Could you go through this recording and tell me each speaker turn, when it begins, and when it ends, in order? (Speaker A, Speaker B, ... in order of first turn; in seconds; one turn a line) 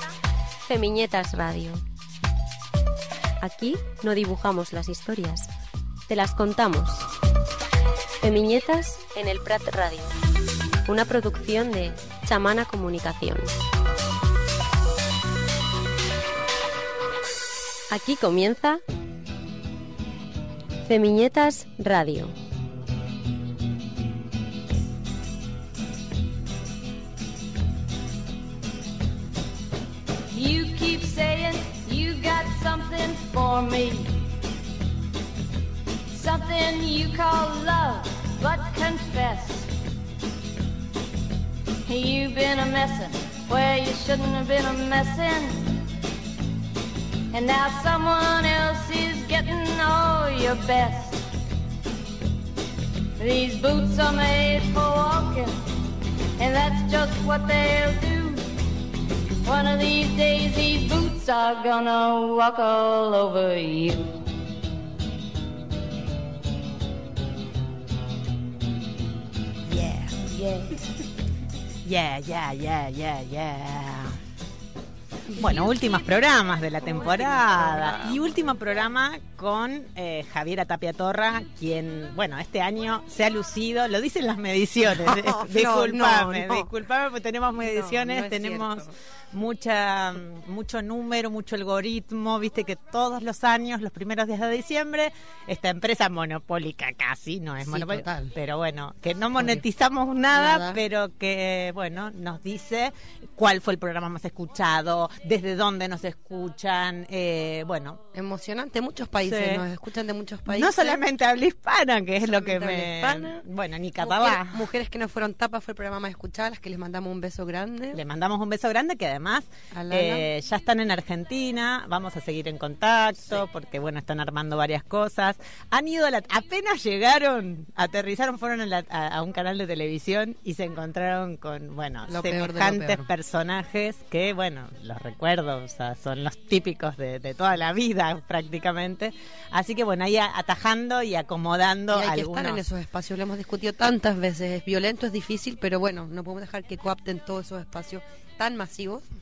Speaker A: 0.7-1.8
Speaker A: 3.4-5.5
Speaker A: 6.1-7.1
Speaker A: 8.2-10.2
Speaker A: 10.9-13.5
Speaker A: 17.9-18.8
Speaker A: 20.9-22.3
Speaker B: 30.3-34.1
Speaker B: 36.1-39.7
Speaker B: 41.9-45.7
Speaker B: 47.3-51.2
Speaker B: 53.2-55.5
Speaker B: 56.4-58.4
Speaker B: 59.4-64.1
Speaker C: 69.7-70.9
Speaker C: 71.8-74.2
Speaker D: 75.3-76.0
Speaker C: 75.4-108.0
Speaker D: 76.8-78.4
Speaker D: 84.9-86.7
Speaker D: 87.6-88.9
Speaker D: 97.6-98.3
Speaker D: 99.4-99.6
Speaker D: 100.3-100.8
Speaker D: 108.1-111.0
Speaker C: 109.2-109.7
Speaker C: 110.5-114.7
Speaker D: 112.2-113.4
Speaker D: 114.0-118.0
Speaker C: 117.9-142.6
Speaker D: 119.7-120.3
Speaker D: 132.1-133.1
Speaker D: 141.9-149.0